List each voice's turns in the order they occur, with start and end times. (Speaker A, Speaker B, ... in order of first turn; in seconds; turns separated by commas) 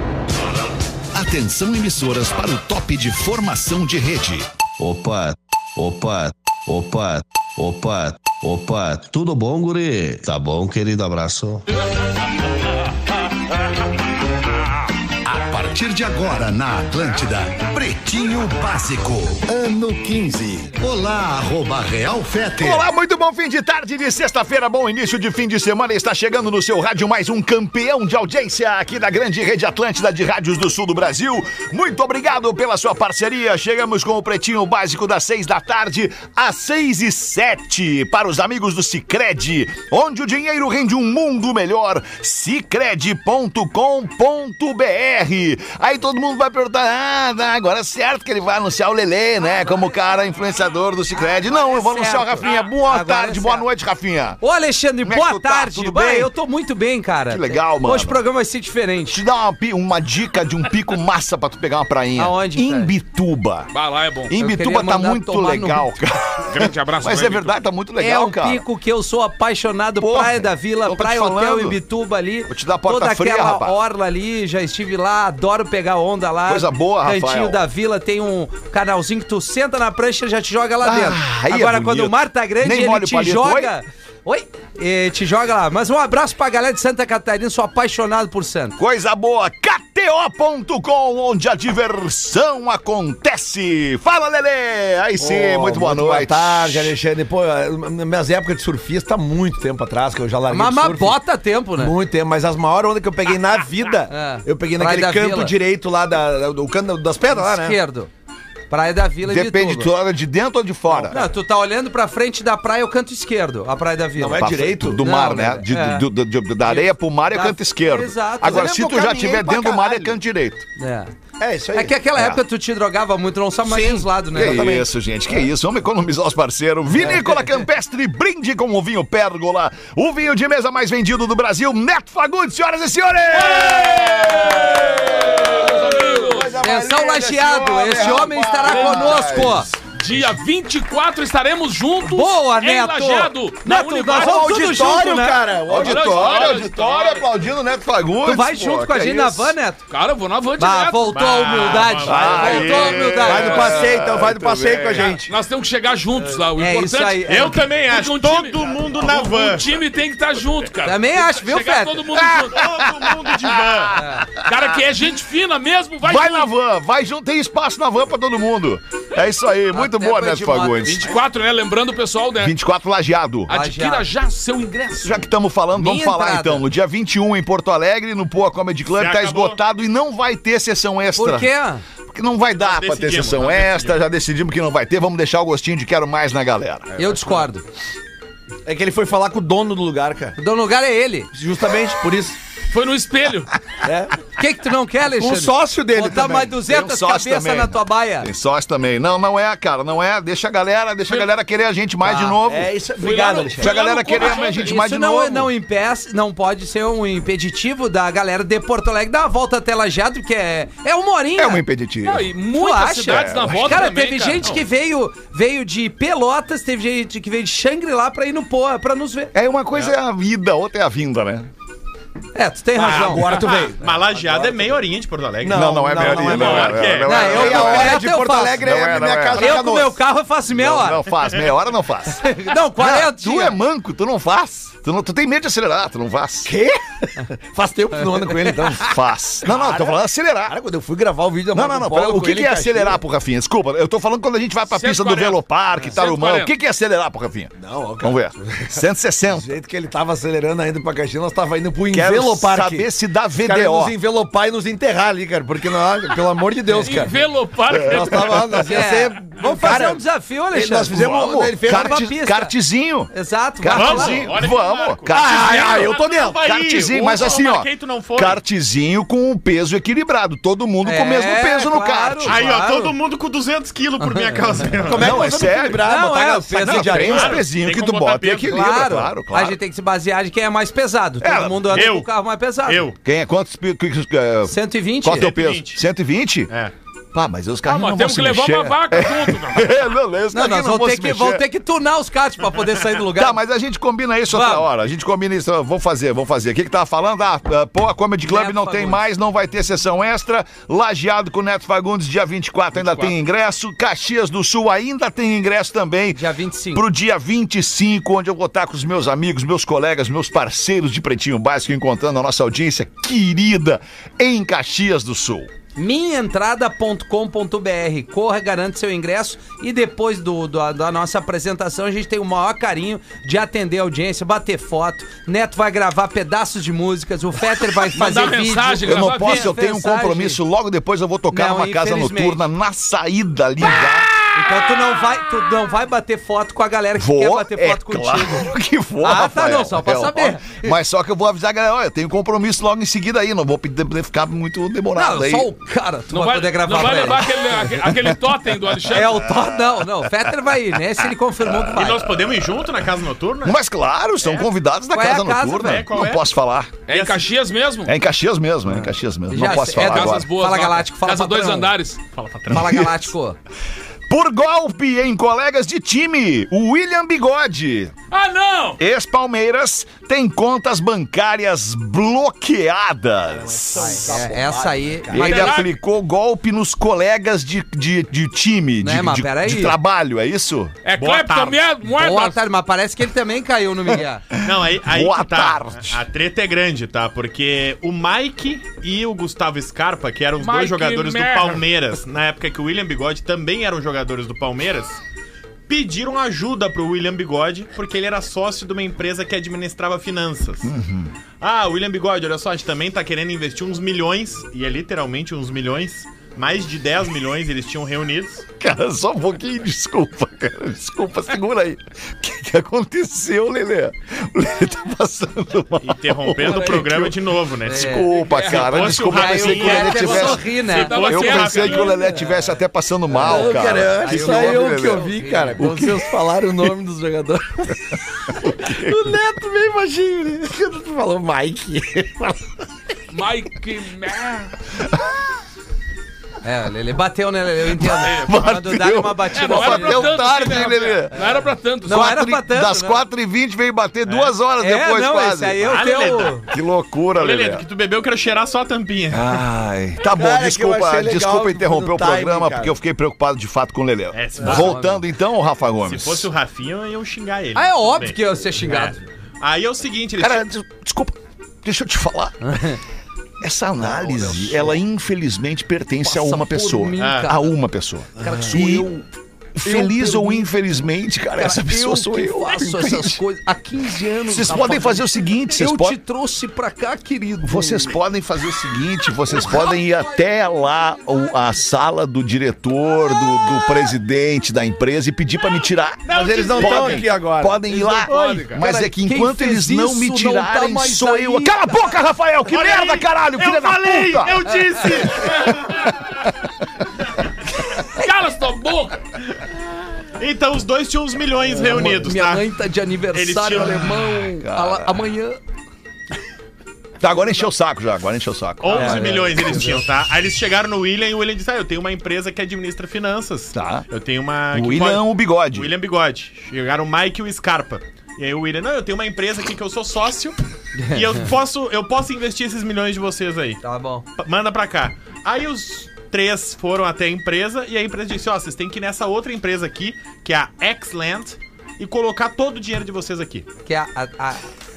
Speaker A: 1.1-4.5, Speaker B: 4.8-11.7, Speaker C: 15.5-22.7, Speaker B: 16.3-16.8, Speaker B: 17.4-20.7, Speaker A: 22.6-54.4, Speaker D: 51.4-53.6, Speaker D: 54.4-59.2, Speaker A: 55.0-56.3, Speaker A: 57.3-58.2, Speaker A: 59.1-63.7, Speaker D: 62.2-62.9, Speaker E: 63.7-64.3, Speaker A: 64.3-68.6, Speaker D: 64.3-65.9, Speaker E: 66.5-67.6, Speaker D: 68.0-88.8, Speaker A: 70.0-71.8, Speaker A: 72.5-73.8, Speaker A: 76.5-77.6, Speaker A: 80.8-83.7, Speaker A: 88.8-96.9, Speaker F: 95.2-101.2, Speaker D: 100.5-101.9, Speaker F: 101.8-107.8, Speaker D: 104.1-105.5, Speaker D: 107.3-108.1, Speaker D: 108.7-109.9, Speaker A: 109.2-111.2, Speaker F: 110.9-111.3, Speaker D: 111.1-116.0, Speaker F: 114.2-115.0, Speaker A: 114.4-120.6, Speaker D: 116.7-118.7, Speaker F: 118.4-120.1, Speaker D: 120.8-121.1, Speaker F: 121.4-121.9, Speaker D: 121.7-124.8, Speaker F: 123.6-124.9, Speaker A: 124.3-139.7, Speaker D: 127.0-127.6, Speaker E: 133.3-136.5, Speaker D: 136.6-139.7, Speaker E: 138.6-144.6, Speaker D: 142.0-145.5, Speaker F: 144.1-146.5, Speaker A: 145.7-149.6, Speaker E: 145.8-147.2, Speaker D: 148.2-149.8, Speaker E: 149.9-151.1, Speaker D: 150.6-153.8, Speaker G: 151.1-153.1, Speaker A: 152.0-155.2, Speaker F: 152.1-155.3, Speaker E: 155.3-162.7, Speaker D: 156.6-157.7, Speaker G: 157.2-159.7, Speaker D: 160.8-162.1, Speaker A: 162.2-164.8, Speaker G: 162.5-164.1, Speaker D: 163.9-164.3, Speaker E: 164.3-166.5, Speaker A: 166.0-171.1, Speaker D: 169.7-171.0, Speaker E: 170.8-172.5, Speaker A: 172.4-173.5, Speaker E: 173.5-175.3, Speaker D: 173.5-174.1, Speaker A: 175.0-181.5, Speaker D: 175.7-176.7, Speaker G: 178.9-179.6, Speaker D: 181.2-181.8, Speaker A: 182.1-187.1, Speaker G: 182.6-184.0, Speaker D: 186.9-187.6, Speaker F: 188.6-190.4, Speaker D: 190.4-191.3, Speaker F: 191.3-192.4, Speaker E: 192.7-193.6, Speaker F: 193.8-194.2, Speaker D: 194.4-198.3, Speaker F: 195.1-196.6, Speaker A: 196.7-202.7, Speaker D: 202.0-202.4, Speaker F: 202.4-203.8, Speaker E: 203.0-204.8, Speaker A: 203.6-205.5, Speaker D: 204.1-211.6, Speaker A: 211.4-212.3, Speaker E: 212.0-214.6, Speaker D: 212.5-219.3, Speaker A: 213.1-213.8, Speaker A: 219.3-221.5, Speaker D: 222.3-223.4, Speaker F: 222.8-224.8, Speaker G: 222.8-227.8, Speaker F: 225.4-230.0, Speaker A: 225.4-229.6, Speaker D: 227.1-228.6, Speaker D: 229.3-231.1, Speaker A: 230.5-236.5, Speaker D: 232.1-233.6, Speaker F: 236.4-243.0, Speaker A: 238.8-240.5, Speaker A: 241.5-249.5, Speaker E: 244.7-246.5, Speaker F: 247.6-252.9, Speaker A: 251.9-253.9, Speaker F: 253.4-257.1, Speaker D: 256.7-257.1, Speaker E: 256.8-258.5, Speaker A: 257.7-258.4, Speaker F: 257.8-262.0, Speaker D: 258.7-261.0, Speaker A: 260.9-265.7, Speaker D: 261.6-262.5, Speaker D: 263.1-264.2, Speaker G: 263.7-268.4, Speaker F: 265.1-266.4, Speaker A: 266.4-272.4, Speaker D: 270.8-272.9, Speaker G: 272.2-275.5, Speaker D: 274.0-274.7, Speaker F: 274.8-277.4, Speaker A: 274.9-275.9, Speaker D: 275.9-277.3, Speaker A: 276.6-279.6, Speaker G: 277.0-278.6, Speaker D: 278.4-282.9, Speaker A: 281.2-281.8, Speaker G: 281.7-282.1, Speaker G: 282.6-282.9, Speaker A: 283.0-286.5, Speaker D: 284.4-285.3, Speaker G: 285.1-285.8, Speaker A: 287.1-291.4, Speaker E: 287.6-289.8, Speaker D: 290.3-293.4, Speaker A: 293.1-315.5, Speaker D: 294.3-294.7, Speaker D: 298.2-299.0, Speaker D: 306.1-306.9, Speaker D: 315.8-330.4, Speaker E: 327.9-329.5, Speaker A: 328.8-334.7, Speaker D: 331.3-332.4, Speaker D: 334.3-338.5, Speaker A: 337.0-345.5, Speaker D: 339.0-340.8, Speaker D: 344.9-347.7, Speaker E: 346.1-349.2, Speaker A: 347.9-348.1, Speaker D: 348.9-352.2, Speaker A: 349.1-349.8, Speaker A: 351.5-351.8, Speaker G: 351.7-353.6, Speaker A: 353.4-356.7, Speaker G: 354.2-354.5, Speaker D: 354.9-355.8, Speaker G: 355.6-356.2, Speaker E: 356.9-357.9, Speaker G: 356.9-357.3, Speaker A: 357.8-360.3, Speaker D: 358.7-361.7, Speaker E: 359.5-362.0, Speaker G: 362.1-362.8, Speaker A: 362.5-363.1, Speaker D: 362.5-363.4, Speaker A: 364.1-367.9, Speaker E: 368.1-368.8, Speaker A: 368.8-374.2, Speaker F: 373.3-375.5, Speaker D: 373.7-375.5, Speaker A: 375.1-380.8, Speaker E: 375.1-375.7, Speaker D: 378.8-379.8, Speaker E: 380.8-382.4, Speaker G: 381.0-381.6, Speaker D: 381.9-384.2, Speaker G: 384.4-395.0, Speaker A: 384.4-386.0, Speaker E: 390.4-391.6, Speaker G: 395.7-400.7, Speaker A: 400.6-401.1, Speaker G: 401.4-408.4, Speaker A: 408.6-426.1, Speaker G: 415.8-422.0, Speaker D: 416.4-416.8, Speaker D: 417.6-421.2, Speaker E: 419.8-422.0, Speaker D: 422.0-422.5, Speaker D: 423.1-426.0, Speaker F: 423.1-432.5, Speaker A: 428.4-429.1, Speaker E: 433.1-434.6, Speaker D: 436.4-440.1, Speaker A: 437.9-441.2, Speaker E: 438.0-438.3, Speaker E: 439.3-442.2, Speaker A: 441.8-445.6, Speaker D: 441.9-443.0, Speaker G: 444.1-444.3, Speaker D: 444.6-446.5, Speaker G: 445.6-446.5, Speaker A: 446.5-447.6, Speaker G: 447.1-449.4, Speaker A: 449.1-456.3, Speaker F: 450.1-452.7, Speaker G: 454.1-454.8, Speaker D: 454.4-455.0, Speaker G: 455.8-460.4, Speaker D: 457.5-459.0, Speaker A: 460.2-462.8, Speaker D: 462.4-462.8, Speaker A: 463.4-473.2, Speaker F: 463.8-464.8, Speaker D: 466.0-467.5, Speaker G: 467.0-467.3, Speaker D: 468.2-468.9, Speaker F: 468.2-468.8, Speaker F: 469.6-470.4, Speaker D: 469.7-470.2, Speaker D: 471.4-478.0, Speaker A: 474.2-476.0, Speaker A: 477.4-496.3, Speaker D: 479.4-479.8, Speaker E: 486.1-486.9, Speaker F: 486.1-488.2, Speaker G: 486.2-487.0, Speaker D: 487.7-491.9, Speaker E: 488.0-488.6, Speaker G: 492.5-495.9, Speaker D: 494.5-494.8, Speaker E: 495.4-495.8, Speaker E: 497.9-499.1, Speaker G: 500.1-502.5, Speaker D: 501.6-505.4, Speaker G: 503.1-504.1, Speaker A: 504.3-505.1, Speaker A: 507.0-509.2, Speaker G: 508.6-520.4, Speaker D: 508.7-509.7, Speaker A: 513.5-513.8, Speaker A: 514.5-515.7, Speaker D: 520.8-521.3, Speaker G: 520.9-523.6, Speaker D: 523.6-524.0, Speaker G: 524.2-533.5, Speaker D: 533.6-534.4